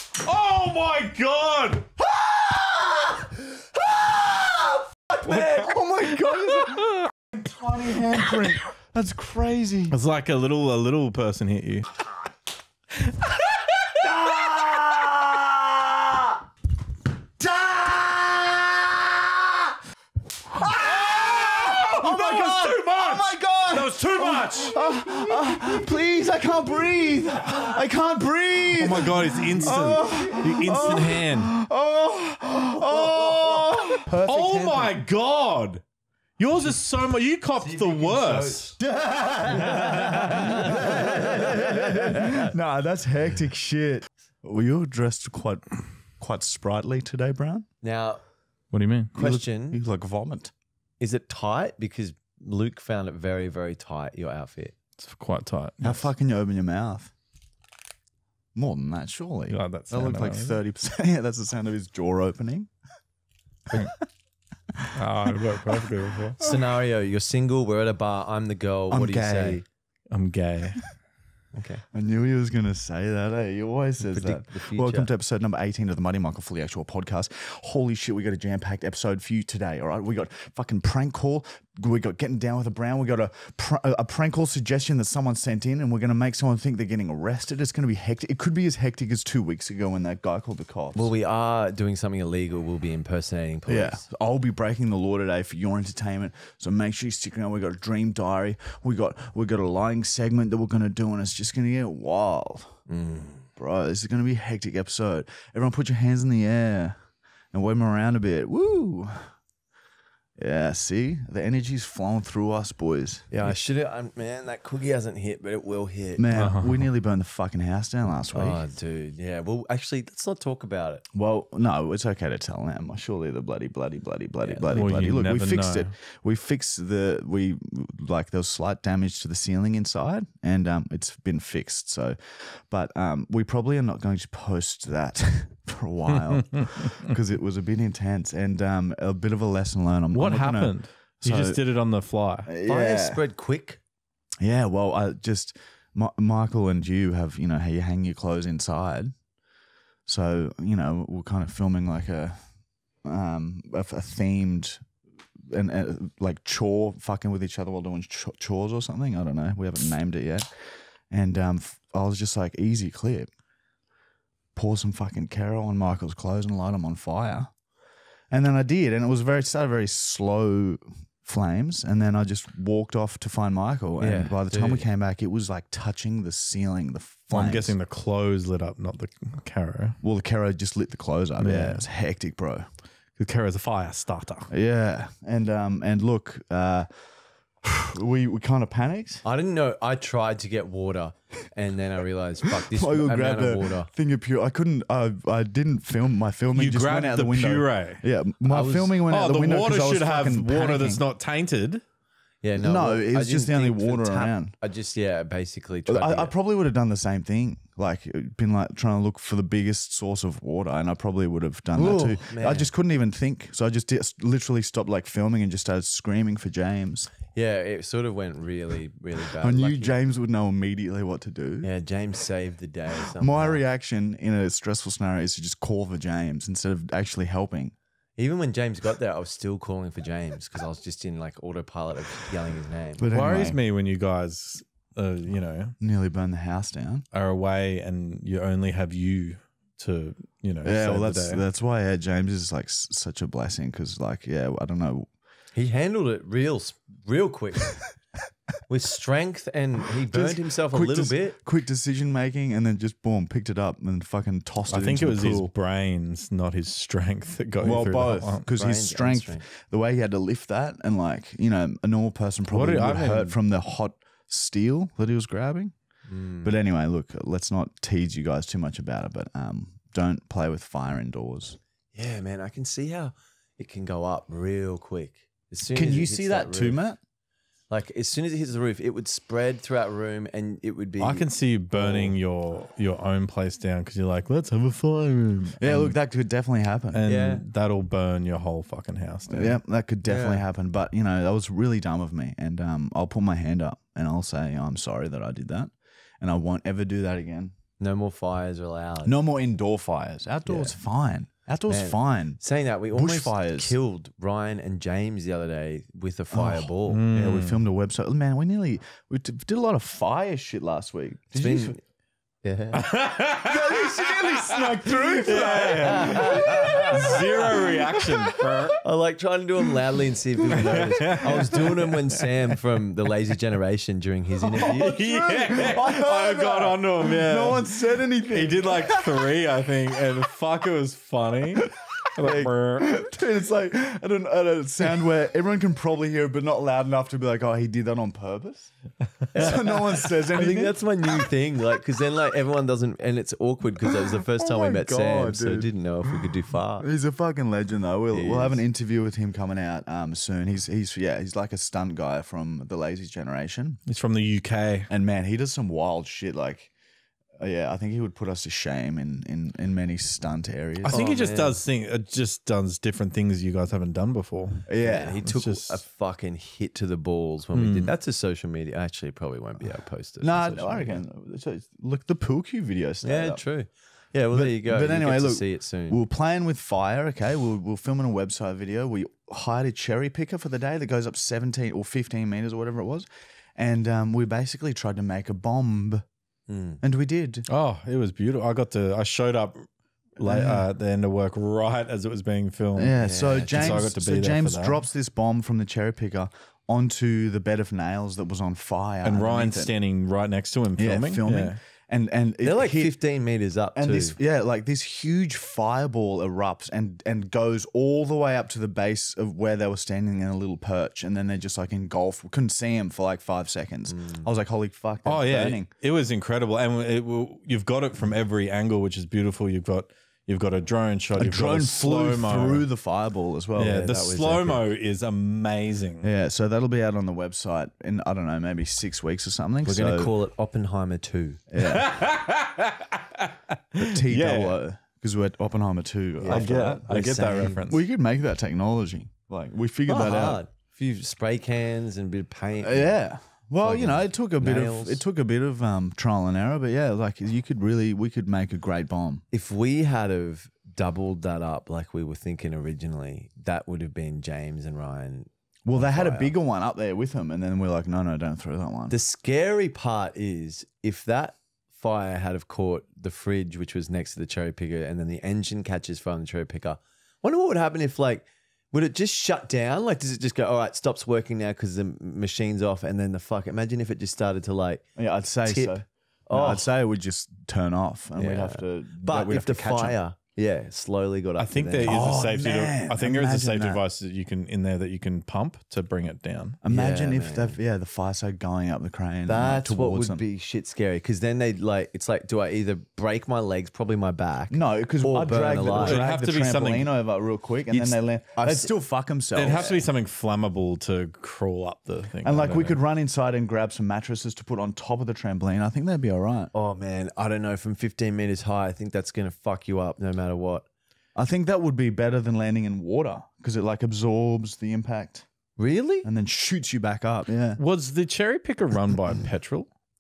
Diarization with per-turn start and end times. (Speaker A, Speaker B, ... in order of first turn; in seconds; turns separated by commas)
Speaker A: 0.2-1.9, Speaker B: 4.2-5.7, Speaker C: 5.3-10.0, Speaker A: 5.3-5.6, Speaker A: 6.3-7.1, Speaker A: 9.9-11.9, Speaker C: 14.1-15.4, Speaker C: 17.4-19.0, Speaker C: 20.5-35.0, Speaker A: 20.6-24.8, Speaker A: 28.7-31.6, Speaker B: 32.9-33.5, Speaker A: 33.6-35.8, Speaker A: 36.4-38.7, Speaker B: 37.6-38.8, Speaker C: 38.8-45.7, Speaker B: 39.5-42.5, Speaker C: 46.2-47.7, Speaker B: 47.8-48.2, Speaker A: 48.7-49.2, Speaker C: 49.1-50.5, Speaker B: 49.2-49.8, Speaker B: 51.0-54.8, Speaker A: 55.0-56.1, Speaker C: 55.8-57.1, Speaker C: 58.5-62.7, Speaker A: 59.5-60.6, Speaker C: 64.8-65.9, Speaker A: 65.0-66.4, Speaker B: 66.4-69.7, Speaker C: 68.9-69.6, Speaker A: 70.1-70.8, Speaker B: 71.5-71.8, Speaker C: 71.9-91.1, Speaker B: 74.1-75.1, Speaker B: 91.0-94.0, Speaker C: 93.7-102.8, Speaker B: 102.9-103.5, Speaker C: 103.6-107.0, Speaker C: 107.5-109.3, Speaker C: 110.4-113.3, Speaker B: 113.3-116.3, Speaker C: 116.2-118.6, Speaker A: 116.3-116.9, Speaker B: 118.3-121.0, Speaker C: 121.1-141.6, Speaker B: 124.4-124.7, Speaker A: 124.7-125.9, Speaker A: 136.2-136.8, Speaker A: 140.1-142.5, Speaker C: 142.5-143.2, Speaker B: 142.7-143.8, Speaker C: 144.4-149.2, Speaker C: 150.1-152.4, Speaker C: 153.0-154.8, Speaker C: 155.5-163.3, Speaker C: 164.6-167.5, Speaker C: 168.3-177.8, Speaker B: 174.0-174.8, Speaker A: 177.3-180.0, Speaker C: 180.0-182.7, Speaker A: 181.4-181.9, Speaker A: 183.2-184.5, Speaker C: 184.5-186.9, Speaker C: 187.6-189.2, Speaker B: 189.2-193.9, Speaker C: 192.6-201.0, Speaker A: 196.5-198.0, Speaker B: 198.5-199.0, Speaker A: 199.1-201.8, Speaker B: 202.4-206.3, Speaker C: 202.6-204.5, Speaker C: 205.9-217.1, Speaker B: 211.7-212.7, Speaker B: 217.3-220.0, Speaker C: 219.4-221.7, Speaker B: 221.6-223.6, Speaker C: 223.2-227.7, Speaker B: 228.2-233.0, Speaker C: 233.0-233.6, Speaker A: 233.1-235.8, Speaker C: 235.8-237.1, Speaker A: 237.1-241.4, Speaker C: 240.6-245.1, Speaker B: 245.5-247.9, Speaker B: 248.7-251.4, Speaker C: 250.1-255.5, Speaker A: 254.7-258.4, Speaker C: 257.6-265.7, Speaker B: 258.5-259.4, Speaker A: 262.5-263.4, Speaker B: 266.1-266.6, Speaker C: 266.4-271.6, Speaker B: 271.9-276.8, Speaker C: 275.7-277.0, Speaker B: 277.7-282.1, Speaker A: 281.0-286.0, Speaker C: 285.6-287.0, Speaker A: 286.9-289.6, Speaker B: 287.1-287.4, Speaker C: 289.3-297.5, Speaker B: 290.1-290.4, Speaker B: 297.8-299.2, Speaker C: 299.1-302.4, Speaker B: 300.5-300.8, Speaker B: 301.7-307.0, Speaker C: 302.9-303.8, Speaker C: 306.3-311.8, Speaker A: 306.9-307.6, Speaker B: 311.4-311.8, Speaker B: 312.4-312.8, Speaker A: 312.7-318.8, Speaker C: 313.4-318.7, Speaker B: 315.8-317.2, Speaker B: 318.8-325.0, Speaker A: 320.5-322.3, Speaker C: 324.5-329.1, Speaker A: 324.7-327.7, Speaker A: 328.3-333.0, Speaker C: 332.2-338.7, Speaker B: 339.3-346.9, Speaker C: 339.4-340.8, Speaker C: 344.3-346.2, Speaker C: 346.8-353.8, Speaker B: 348.1-348.6, Speaker A: 353.9-354.9, Speaker C: 354.9-356.7, Speaker C: 357.4-361.0, Speaker A: 360.8-364.7, Speaker B: 360.9-361.6, Speaker C: 364.7-365.2, Speaker B: 364.8-371.0, Speaker A: 365.2-365.7, Speaker A: 367.5-367.9, Speaker C: 370.2-373.4, Speaker B: 373.0-376.0, Speaker C: 374.3-386.0, Speaker B: 386.5-386.8, Speaker C: 386.8-387.5, Speaker A: 387.5-394.8, Speaker C: 390.2-390.6, Speaker C: 392.8-399.7, Speaker B: 393.0-393.9, Speaker A: 399.0-401.6, Speaker C: 400.8-402.9, Speaker B: 402.4-404.2, Speaker C: 403.8-415.7, Speaker B: 413.9-414.3, Speaker A: 415.1-422.7, Speaker C: 421.1-424.1, Speaker A: 423.6-426.1, Speaker B: 424.0-424.6, Speaker C: 426.0-430.1, Speaker B: 429.7-431.4, Speaker C: 431.5-432.0, Speaker A: 431.6-434.6, Speaker C: 433.8-436.8, Speaker B: 436.2-437.6, Speaker A: 436.3-437.9, Speaker C: 437.6-440.4, Speaker B: 439.9-443.0, Speaker C: 442.6-449.2, Speaker B: 443.6-445.0, Speaker B: 449.3-456.3, Speaker C: 455.7-459.0, Speaker B: 458.9-476.7, Speaker C: 475.0-480.0, Speaker B: 478.2-482.1, Speaker A: 481.4-486.6, Speaker C: 481.8-483.8, Speaker C: 486.6-490.2, Speaker B: 486.7-487.6, Speaker B: 489.3-496.0, Speaker C: 494.5-499.8, Speaker A: 495.8-496.9, Speaker B: 497.7-498.7, Speaker A: 499.4-502.8, Speaker C: 502.2-506.5, Speaker B: 506.5-510.7, Speaker C: 511.2-515.3, Speaker B: 515.6-516.1, Speaker C: 516.0-517.6, Speaker A: 517.6-519.7